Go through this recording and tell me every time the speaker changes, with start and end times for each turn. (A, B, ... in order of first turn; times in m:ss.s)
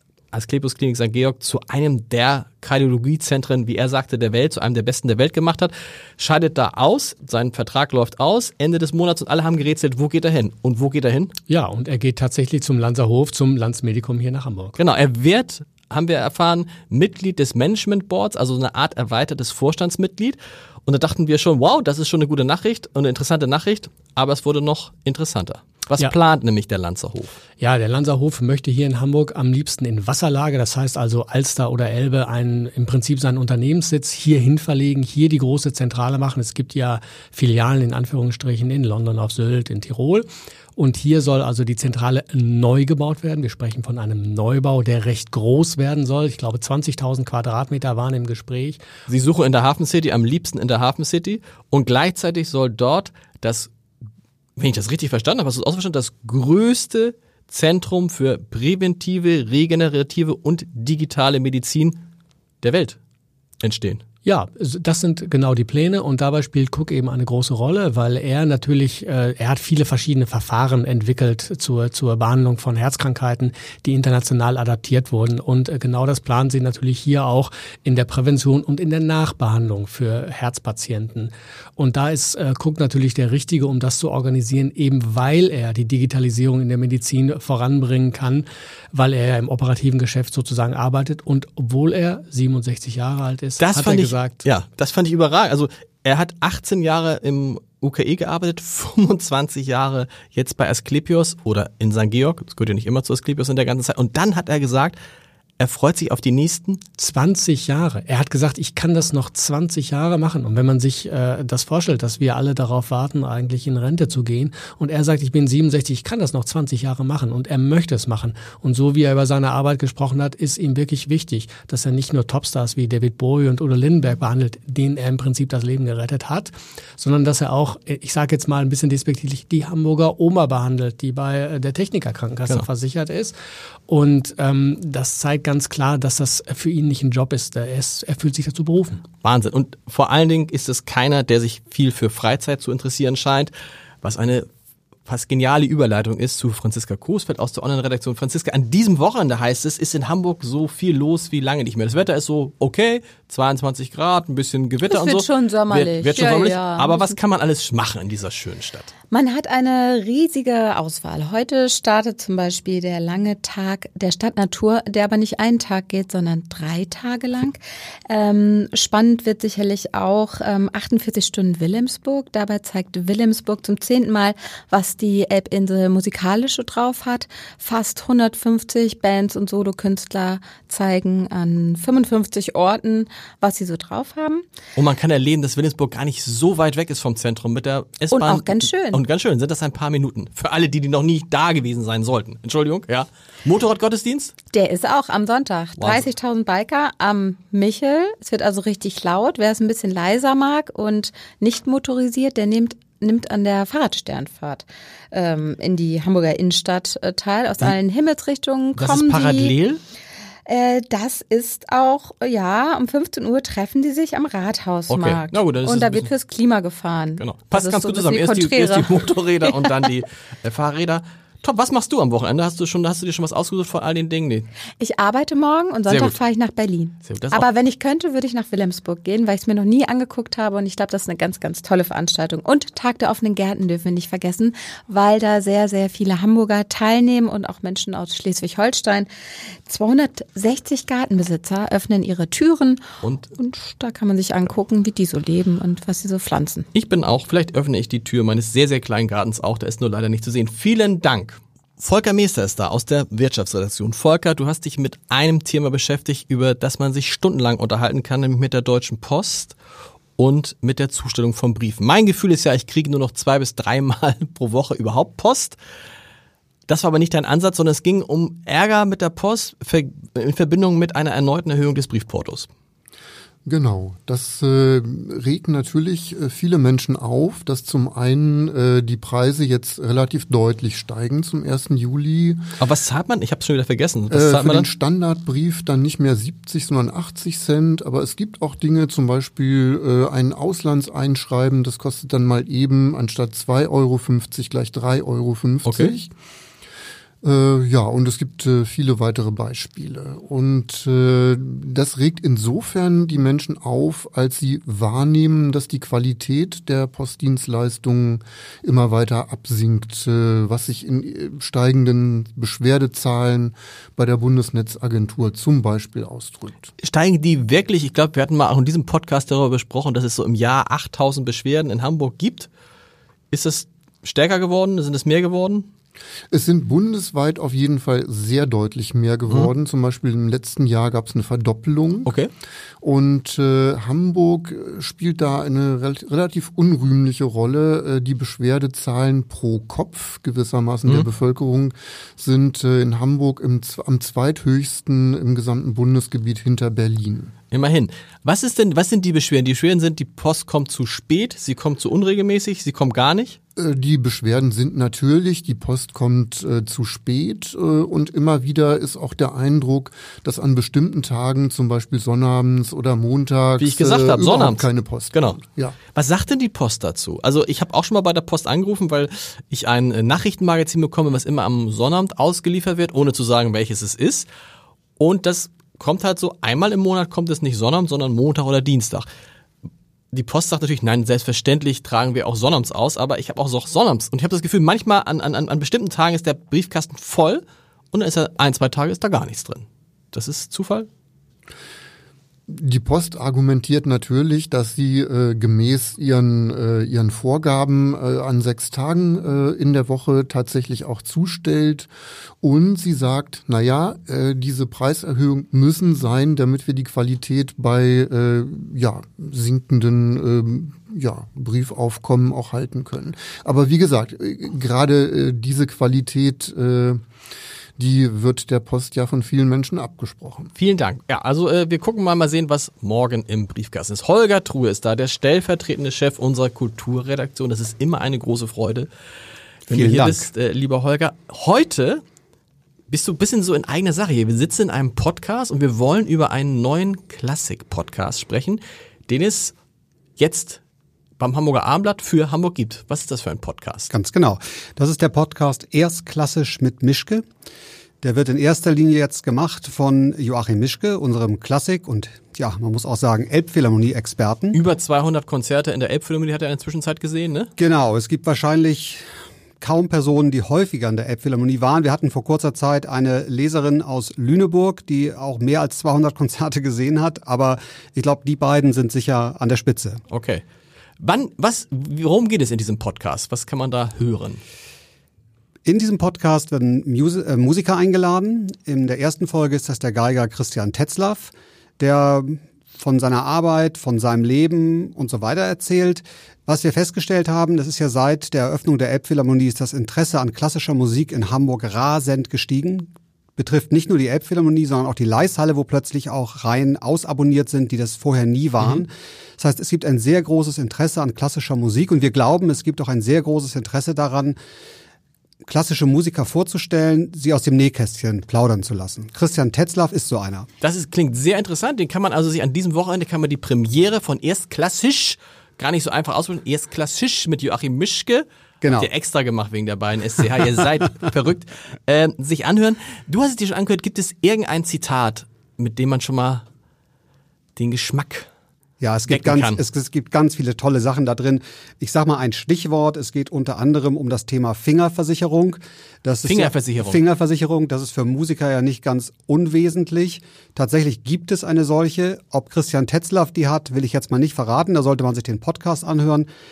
0:00.3-0:11.3 A
0:11.5-0:14.8 B
0:14.8-0:27.3 A
0:27.6-0:48.8 B
0:49.1-0:53.7 A
0:54.6-1:02.0 A
1:02.6-1:03.0 A
1:03.6-1:04.0 A
1:04.2-1:34.4 B
1:33.6-1:45.0 A
1:45.6-1:46.8 A
1:47.0-2:13.3 B
2:13.9-2:19.0 B
2:19.2-2:24.5 A
2:25.1-2:38.9 A
2:34.8-2:37.2 C
2:39.1-3:04.4 C
3:04.8-3:14.3 A
3:08.1-3:09.0 C
3:14.5-3:29.5 C
3:15.8-3:16.1 A
3:28.8-3:29.8 A
3:30.5-3:39.7 C
3:34.9-3:36.1 A
3:37.2-3:44.5 A
3:44.8-3:59.1 C
3:45.9-3:46.2 A
3:47.0-3:47.5 A
3:59.7-4:02.8 C
4:03.0-4:03.3 A
4:03.4-4:06.7 C
4:06.7-4:19.6 A
4:20.2-4:25.6 A
4:26.7-4:32.5 A
4:33.4-4:42.4 D
4:42.6-4:44.7 A
4:44.1-4:56.1 D
4:55.6-4:56.0 A
4:57.2-5:16.7 D
5:16.8-5:22.5 A
5:23.3-5:25.7 A
5:26.3-5:32.1 D
5:32.0-5:32.3 A
5:32.8-5:47.3 D
5:47.5-5:53.4 A
5:53.6-6:05.8 D
6:03.6-6:05.4 A
6:06.0-6:14.3 A
6:15.0-6:19.1 A
6:20.1-6:30.9 A
6:32.5-6:41.9 D
6:42.4-6:57.0 D
6:57.8-7:00.5 D
7:00.6-7:08.9 A
7:09.7-7:12.0 A
7:09.7-7:10.3 E
7:12.9-7:19.5 A
7:20.2-7:20.6 A
7:21.2-7:23.9 A
7:23.9-7:27.2 E
7:28.0-7:34.6 E
7:34.5-7:37.5 A
7:37.6-7:39.0 E
7:39.6-7:50.0 E
7:50.1-7:50.4 A
7:51.0-7:54.4 A
7:55.6-8:24.4 E
8:25.4-8:30.5 E
8:30.6-8:46.4 A
8:38.6-8:38.9 E
8:47.6-8:48.3 A
8:48.8-9:06.3 E
8:49.1-8:49.6 A
8:56.2-8:57.0 A